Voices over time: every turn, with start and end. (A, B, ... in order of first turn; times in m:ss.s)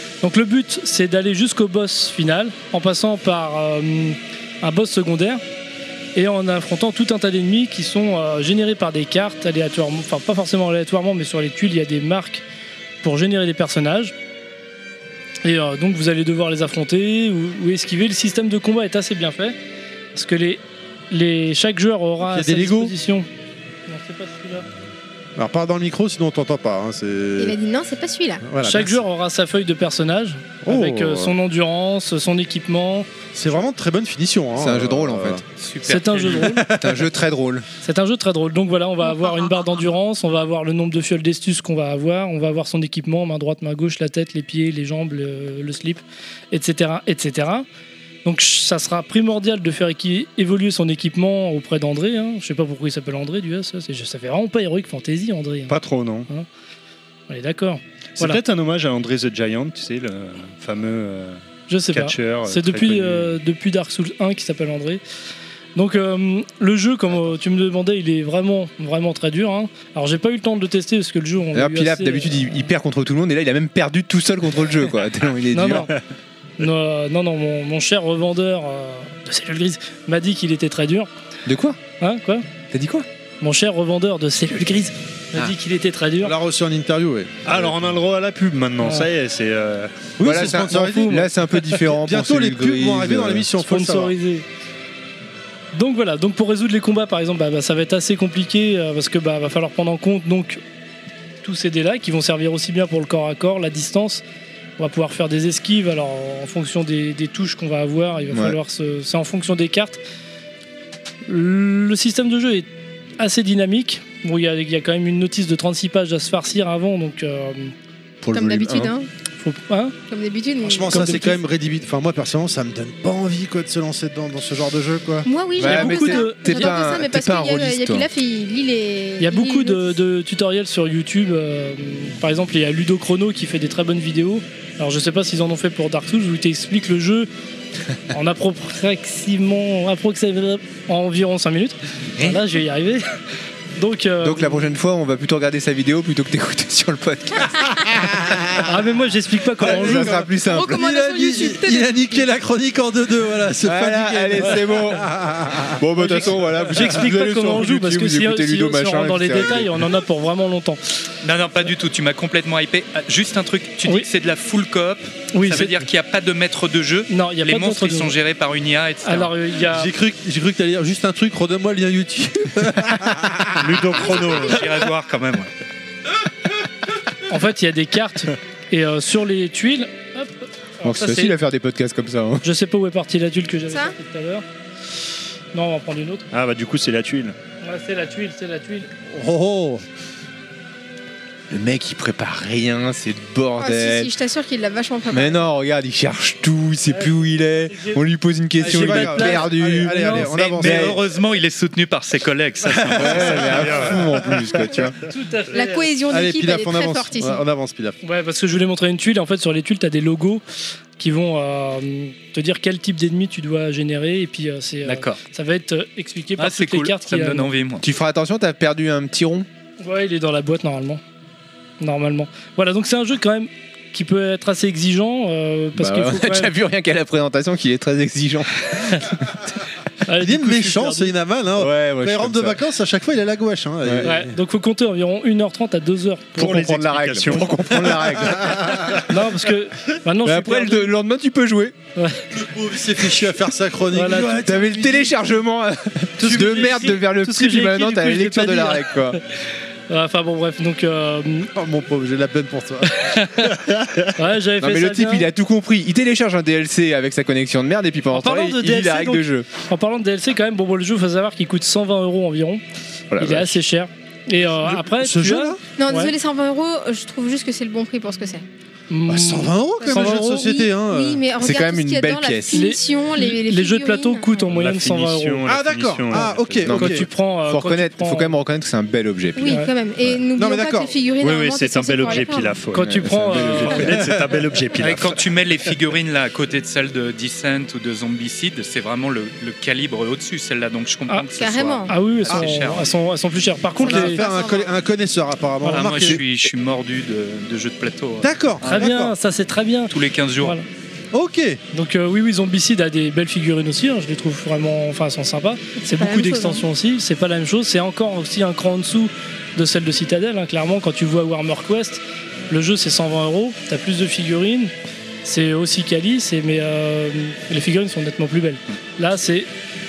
0:00.2-0:05.4 A
0:06.2-0:12.4 A
0:13.0-0:14.1 A
0:15.4-0:19.6 A
0:20.1-0:23.3 A
0:22.2-0:22.9 B
0:23.9-0:24.7 A
0:25.4-0:27.6 B
0:27.4-0:28.4 C
0:28.4-0:29.0 B
0:28.6-0:33.1 A
0:30.6-0:31.4 B
0:33.3-0:35.4 B
0:34.6-0:35.4 D
0:35.6-0:36.7 E
0:35.8-0:36.7 A
0:36.4-0:37.1 B
0:36.8-0:37.7 D
0:37.8-0:47.7 A
0:39.0-0:39.8 C
0:48.2-0:56.5 A
0:55.7-0:56.3 F
0:57.3-0:58.4 A
0:58.2-1:03.4 F
1:01.7-1:05.0 A
1:05.8-1:12.6 A
1:11.5-1:15.9 D
1:15.5-1:15.9 A
1:16.6-1:21.1 A
1:21.5-1:21.8 D
1:22.0-1:22.5 A
1:22.7-1:23.1 D
1:23.4-1:26.3 A
1:26.2-1:27.7 B
1:27.5-1:30.1 F
1:28.8-1:29.1 A
1:30.2-1:31.3 B
1:30.2-1:33.5 D
1:30.5-1:31.3 A
1:31.9-1:34.1 B
1:33.6-1:34.4 A
1:35.7-1:40.6 A
1:41.4-1:44.2 A
1:44.8-1:50.0 A
1:48.3-1:48.6 D
1:51.3-1:52.7 A
1:53.2-1:57.7 A
1:58.2-1:58.9 D
1:58.3-1:59.1 C
1:59.4-2:00.0 A
2:00.1-2:01.1 C
2:00.6-2:05.3 B
2:00.9-2:01.4 A
2:05.2-2:10.0 C
2:05.6-2:08.1 D
2:05.6-2:06.8 A
2:09.2-2:17.3 A
2:18.1-2:23.0 A
2:23.8-2:24.6 A
2:24.2-2:28.7 D
2:28.6-2:30.3 A
2:29.6-2:30.8 D
2:29.6-2:36.8 B
2:30.4-2:32.1 C
2:33.6-2:39.9 D
2:36.0-2:40.8 A
2:41.2-2:49.3 E
2:45.3-2:45.8 A
2:47.1-2:48.2 A
2:49.0-2:49.9 A
2:49.7-2:54.4 B
2:53.6-2:54.7 F
2:54.3-2:55.5 E
2:57.3-3:01.4 A
3:00.8-3:02.4 D
3:02.4-3:04.4 A
3:05.5-3:06.3 A
3:06.3-3:07.4 F
3:07.6-3:08.9 A
3:09.1-3:09.8 B
3:11.5-3:14.1 D
3:13.6-3:15.5 C
3:15.1-3:21.0 D
3:17.7-3:18.0 A
3:18.6-3:21.0 B
3:18.6-3:20.3 A
3:20.3-3:23.7 E
3:22.6-3:24.2 B
3:22.9-3:25.0 D
3:23.6-3:24.1 F
3:25.1-3:25.9 A
3:25.5-3:27.4 C
3:26.1-3:28.0 B
3:28.0-3:30.4 A
3:31.0-3:37.5 A
3:34.8-3:35.2 E
3:36.4-3:37.8 E
3:37.8-3:39.5 D
3:39.8-3:41.0 A
3:41.8-3:46.5 A
3:45.8-3:49.2 D
3:50.1-3:51.1 A
3:50.2-3:54.4 B
3:51.6-3:52.6 D
3:54.0-3:56.6 A
3:56.4-3:57.9 F
3:56.4-3:58.9 D
3:57.9-3:58.9 B
3:59.0-4:00.9 A
4:00.2-4:01.8 D
4:02.0-4:02.2 A
4:02.3-4:05.2 B
4:03.9-4:04.4 A
4:04.4-4:09.2 D
4:06.2-4:09.2 A
4:09.9-4:11.5 A
4:11.6-4:13.0 B
4:13.0-4:13.6 A
4:13.6-4:14.2 F
4:14.2-4:15.3 A
4:14.6-4:19.5 D
4:18.1-4:22.6 A
4:23.1-4:23.6 D
4:23.2-4:26.1 A
4:24.6-4:25.6 B
4:25.8-4:28.4 C
4:28.9-4:30.4 A
4:29.1-4:31.2 B
4:29.8-4:34.5 C
4:31.4-4:32.6 D
4:32.5-4:35.5 A
4:34.5-4:36.8 F
4:35.4-4:37.1 B
4:36.7-4:40.2 D
4:36.8-4:38.4 A
4:39.4-4:42.6 C
4:40.4-4:41.0 B
4:41.2-4:45.2 F
4:42.7-4:43.9 A
4:43.0-4:44.0 D
4:43.9-4:44.3 B
4:44.8-4:52.9 E
4:51.4-4:51.9 C
4:51.9-4:54.2 A
4:53.8-4:56.2 B
4:53.8-4:54.7 C
4:55.6-4:58.9 E
4:58.2-4:59.2 B
4:58.6-5:00.7 A
4:59.9-5:00.6 E
5:01.1-5:01.6 B
5:01.7-5:14.7 A
5:05.8-5:06.6 C
5:15.2-5:19.5 A